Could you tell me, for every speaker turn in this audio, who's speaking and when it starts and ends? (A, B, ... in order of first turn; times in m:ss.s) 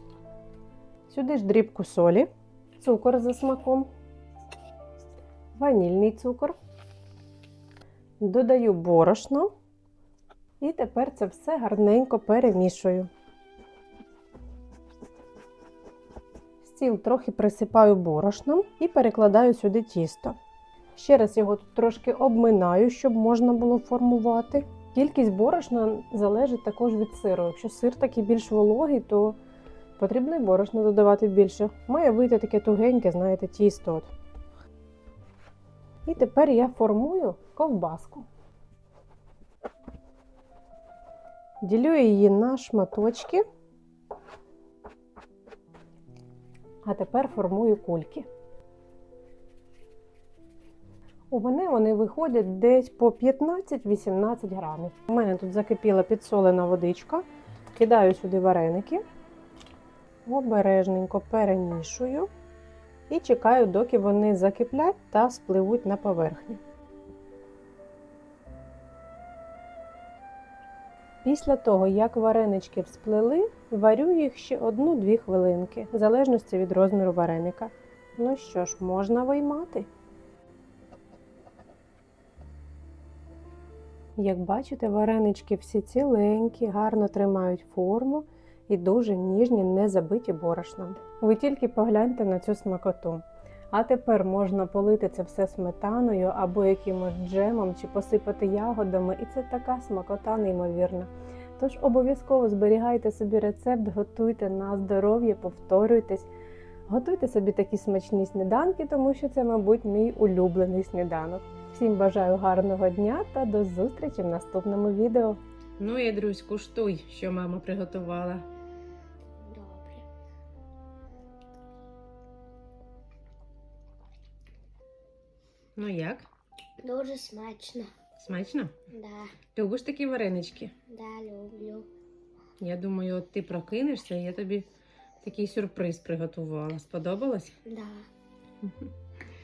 0:01.1-0:02.3 A
0:02.8-0:03.9 A
0:05.6-0:06.6 A
0:08.2-0:09.5 A
0:10.6-0:13.1 A
0:16.6-0:20.4 A
0:21.0-0:29.4 A
0:30.0-0:34.1 A
0:36.0-0:38.2 A
0:41.6-0:43.4 A
0:46.8-0:48.3 A
0:51.3-0:59.0 A
1:00.2-1:02.3 A
1:03.1-1:06.6 A
1:11.2-1:19.9 A
1:24.2-1:46.3 A
1:46.9-1:58.4 A
1:59.4-2:00.0 B
2:05.8-2:06.3 A
2:06.8-2:07.9 B
2:08.2-2:08.7 A
2:08.9-2:09.4 B
2:09.5-2:10.7 A
2:10.9-2:11.9 B
2:12.6-2:14.6 A
2:15.2-2:17.6 A
2:17.6-2:18.1 B
2:18.6-2:18.9 A